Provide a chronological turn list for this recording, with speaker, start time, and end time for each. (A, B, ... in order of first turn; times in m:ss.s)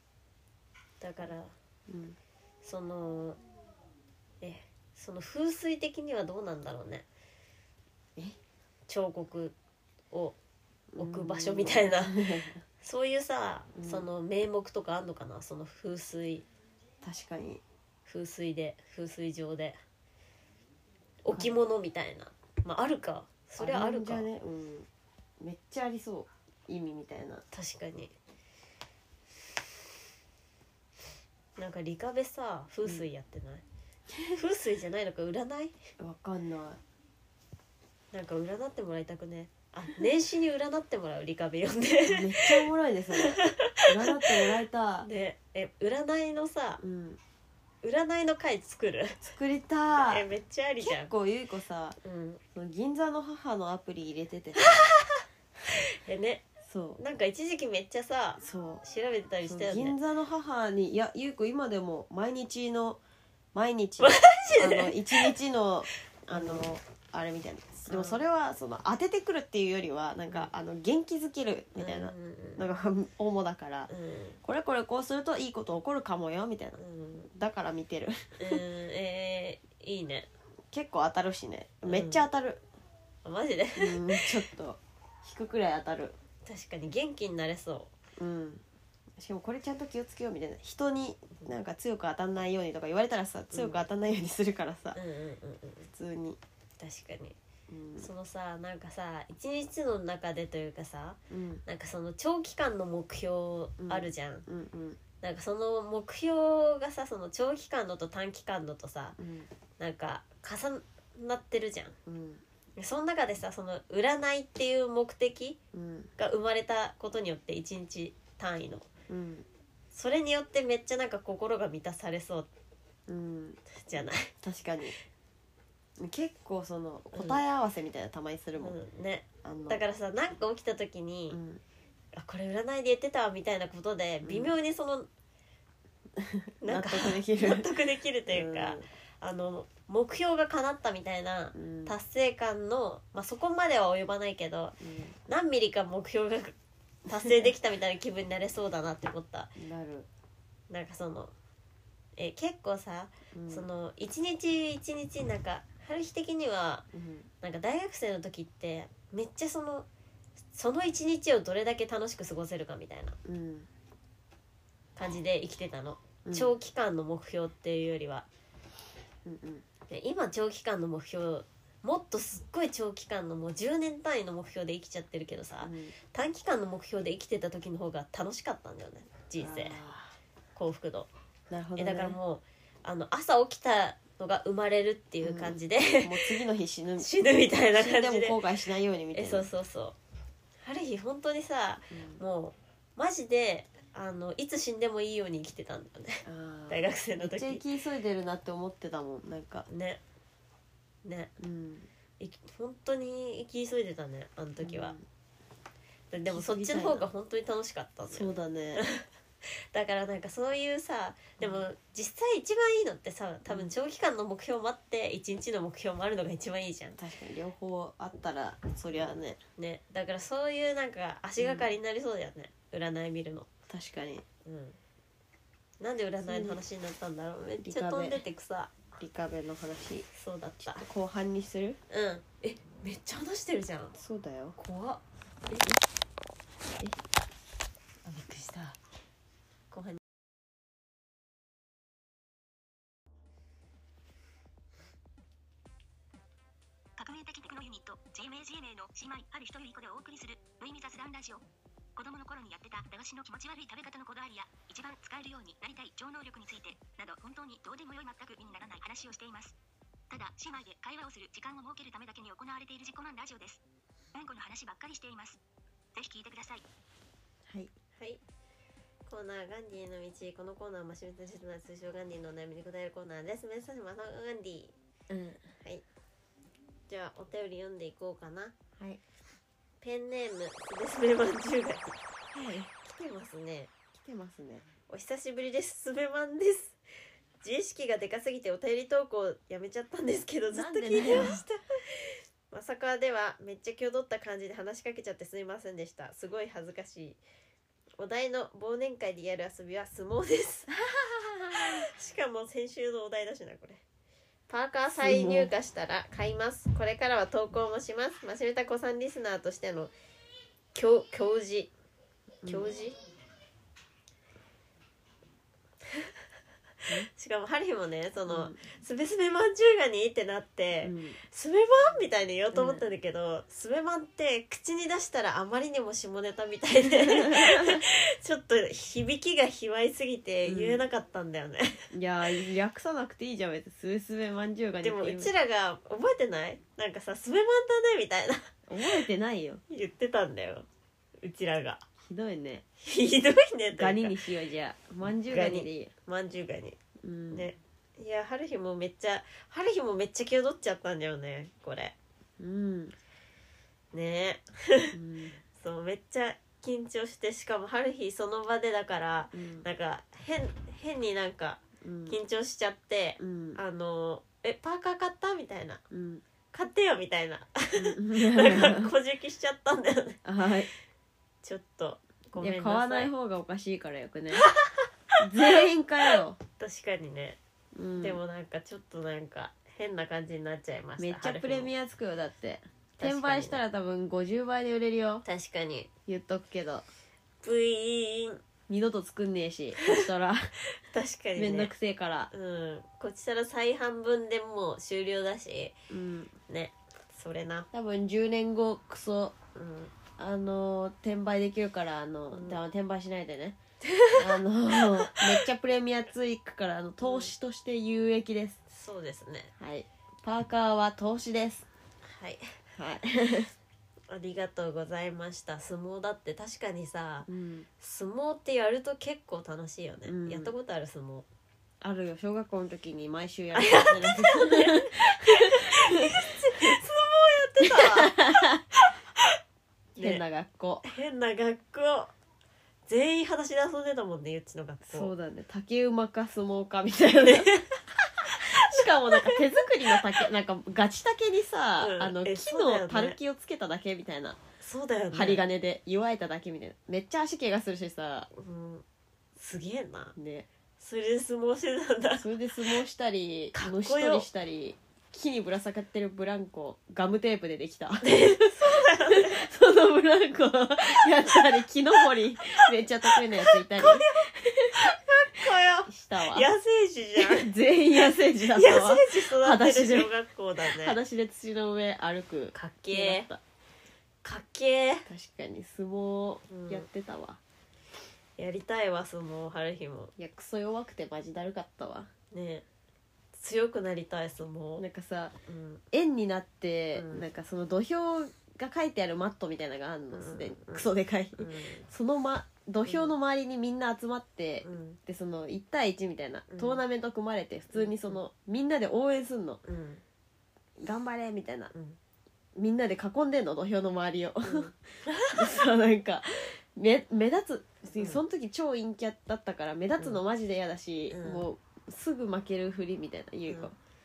0:01.0-0:01.5 A
0:01.9-0:02.2 B
0:02.6-0:03.4 A
0:04.4-0:07.1 A
0:08.9-0:09.6 A
0:10.1-0:10.4 A
0:10.9-0:12.6 B
0:11.0-0:12.2 A
0:12.8-0:16.5 A
0:13.8-0:14.1 B
0:17.0-0:17.6 B
0:18.1-0:19.8 A
0:21.2-0:24.3 A
0:21.3-0:21.6 B
0:23.6-0:24.9 B
0:25.4-0:27.4 B
0:27.5-0:28.1 A
0:31.6-0:33.6 A
0:34.3-0:35.8 A
0:36.0-0:36.8 B
0:38.1-0:46.8 A
0:42.1-0:45.1 B
0:46.8-0:47.2 B
0:47.8-0:49.2 A
0:49.2-0:50.3 B
0:50.0-0:51.1 A
0:50.8-0:52.0 B
0:52.0-0:52.4 A
0:52.5-0:54.7 B
0:54.6-0:56.5 A
0:56.6-0:57.0 B
0:57.0-1:00.0 A
0:58.4-0:58.8 B
0:59.4-1:03.0 B
1:03.5-1:13.9 B
1:04.0-1:05.4 A
1:06.3-1:06.6 A
1:07.9-1:08.2 A
1:11.8-1:12.6 A
1:13.9-1:14.4 A
1:14.4-1:16.8 B
1:16.8-1:17.3 A
1:17.3-1:18.6 B
1:18.4-1:20.3 A
1:20.7-1:22.6 B
1:21.9-1:22.3 A
1:23.2-1:24.4 A
1:23.8-1:26.2 B
1:26.4-1:27.9 A
1:28.2-1:28.6 B
1:29.2-1:35.0 B
1:33.5-1:33.8 A
1:34.9-1:35.9 A
1:35.9-1:36.4 B
1:36.8-1:37.4 A
1:37.7-1:38.1 B
1:38.0-1:44.5 A
1:41.3-1:41.6 B
1:43.8-1:45.0 B
1:45.2-1:49.2 A
1:49.2-1:49.5 B
1:49.8-1:52.0 A
1:52.1-1:52.4 B
1:52.8-1:55.6 A
1:55.7-1:56.1 B
1:56.2-1:58.9 A
1:59.1-1:59.5 B
1:59.9-2:02.5 A
2:03.1-2:05.0 B
2:03.8-2:04.3 A
2:06.0-2:08.8 B
2:07.1-2:07.4 A
2:08.6-2:11.4 A
2:09.4-2:09.8 B
2:11.3-2:11.6 B
2:12.1-2:15.1 A
2:14.2-2:14.6 B
2:16.2-2:17.7 B
2:16.6-2:24.8 A
2:18.3-2:18.9 B
2:21.6-2:22.0 B
2:24.8-2:25.2 B
2:25.3-2:29.6 A
2:27.2-2:27.5 B
2:29.6-2:30.1 B
2:30.7-2:31.3 A
2:32.2-2:36.9 A
2:33.3-2:33.7 B
2:36.9-2:37.3 B
2:37.4-2:39.9 A
2:40.5-2:43.2 A
2:43.2-2:43.7 B
2:45.0-2:48.3 A
2:46.2-2:46.6 B
2:49.3-2:49.6 B
2:49.9-2:59.8 A
2:55.6-2:55.9 B
2:59.4-3:00.1 B
3:00.6-3:01.1 A
3:01.5-3:02.2 B
3:01.8-3:06.4 A
3:05.2-3:07.1 B
3:07.0-3:08.4 A
3:07.7-3:09.5 B
3:09.1-3:10.0 A
3:10.6-3:17.6 A
3:11.9-3:12.2 B
3:16.3-3:19.7 B
3:19.7-3:20.0 A
3:21.0-3:21.3 A
3:21.4-3:21.9 B
3:22.2-3:25.0 A
3:24.6-3:25.0 B
3:26.1-3:29.0 A
3:26.3-3:27.1 B
3:28.1-3:28.8 B
3:29.7-3:37.0 A
3:31.4-3:31.7 B
3:33.5-3:33.8 B
3:37.0-3:39.4 B
3:38.9-3:43.5 A
3:41.4-3:41.7 B
3:43.7-3:44.2 B
3:44.4-3:44.8 A
3:45.8-3:48.7 A
3:46.2-3:46.6 B
3:47.6-3:48.2 B
3:49.0-3:50.1 B
3:50.1-3:50.9 A
3:50.7-3:51.8 B
3:51.9-3:54.0 A
3:54.0-3:54.6 B
3:54.6-3:55.7 A
3:58.0-3:58.8 A
3:59.7-4:00.0 A
4:07.0-4:11.4 C
4:12.0-4:19.6 C
4:20.1-4:23.6 C
4:24.1-4:25.4 C
4:26.0-4:26.6 C
4:28.0-4:28.2 A
4:29.1-4:34.7 A
4:35.1-4:35.4 B
4:36.9-4:38.6 A
4:39.8-4:42.0 A
4:42.3-4:42.7 B
4:42.8-4:43.7 A
4:43.9-4:44.7 B
4:44.9-4:46.8 A
4:47.4-4:57.2 A
4:50.5-4:51.5 B
4:58.0-5:00.8 A
5:01.0-5:01.8 B
5:01.5-5:03.8 A
5:04.5-5:09.9 A
5:04.9-5:05.5 B
5:10.7-5:11.7 A
5:12.4-5:12.7 B
5:12.5-5:13.0 A
5:17.1-5:31.8 A
5:18.3-5:18.6 B
5:20.8-5:21.2 B
5:22.5-5:22.8 B
5:26.9-5:27.8 B
5:30.5-5:30.8 B
5:31.9-5:35.3 B
5:34.8-5:38.5 A
5:38.7-5:39.6 B
5:39.7-5:40.7 A
5:41.2-5:41.8 A
5:42.0-5:42.6 B
5:42.8-5:44.2 A
5:43.7-5:45.9 B
5:45.1-5:46.8 A
5:47.0-5:47.5 B
5:47.3-5:52.0 A
5:52.4-5:53.0 B
5:53.9-5:54.9 A
5:54.9-5:55.4 B
5:55.6-6:05.8 A
5:59.3-5:59.6 B
6:01.8-6:02.2 B
6:03.2-6:03.6 B
6:05.9-6:06.2 B
6:06.5-6:10.2 A
6:07.8-6:08.9 B
6:10.2-6:10.7 B
6:11.4-6:13.1 A
6:12.4-6:14.5 B
6:14.4-6:14.8 A
6:15.2-6:16.4 B
6:16.6-6:17.4 A
6:17.8-6:18.2 B
6:18.0-6:21.7 A
6:21.0-6:25.2 B
6:23.0-6:23.6 A
6:25.2-6:25.9 A
6:26.1-6:26.9 B
6:27.4-6:28.4 A
6:28.7-6:30.5 B
6:29.8-6:30.0 A
6:30.8-6:31.7 A
6:31.4-6:32.3 B
6:32.3-6:35.8 A
6:35.9-6:36.3 B
6:36.5-6:37.7 A
6:37.7-6:39.4 B
6:39.6-6:39.9 A
6:40.2-6:43.6 B
6:42.3-6:42.6 A
6:43.8-6:44.4 A
6:44.1-6:48.6 B
6:45.0-6:45.3 A
6:47.0-6:47.3 A
6:48.7-6:49.5 A
6:49.6-6:51.7 B
6:52.0-6:52.4 A
6:52.8-6:53.5 B
6:54.1-6:57.3 A
6:57.3-6:57.7 B
6:57.8-7:01.3 A
7:00.1-7:00.5 B
7:01.8-7:06.7 B
7:03.6-7:09.4 A
7:07.6-7:08.6 B
7:10.0-7:10.2 A
7:10.0-7:10.9 B
7:10.8-7:12.1 A
7:12.9-7:15.1 A
7:14.9-7:17.5 B
7:17.2-7:20.0 A
7:18.2-7:24.4 B
7:21.8-7:23.2 A
7:24.6-7:25.4 A
7:25.1-7:28.3 B
7:28.3-7:28.8 A
7:29.4-7:30.2 A
7:30.2-7:30.5 B
7:30.8-7:32.3 A
7:32.2-7:46.5 B
7:33.5-7:34.3 A
7:38.0-7:39.5 A
7:43.4-7:51.0 A
7:47.2-7:53.4 B
7:52.5-7:53.3 A
7:54.2-7:55.1 A
7:55.1-7:57.4 B
7:56.5-7:56.9 A
7:58.4-8:00.1 A
8:00.2-8:02.1 B
8:02.3-8:02.7 A
8:03.3-8:04.8 A
8:04.8-8:05.4 B
8:05.5-8:05.8 A
8:05.9-8:19.6 B
8:06.9-8:07.3 A
8:10.1-8:11.9 A
8:12.9-8:13.2 A
8:14.6-8:15.0 A
8:16.5-8:16.8 A
8:17.7-8:18.2 A
8:19.6-8:20.0 A
8:20.8-8:21.7 B
8:21.7-8:22.0 A
8:22.6-8:24.7 B
8:24.4-8:25.4 A
8:25.3-8:33.8 B
8:28.0-8:28.2 A
8:31.1-8:31.5 A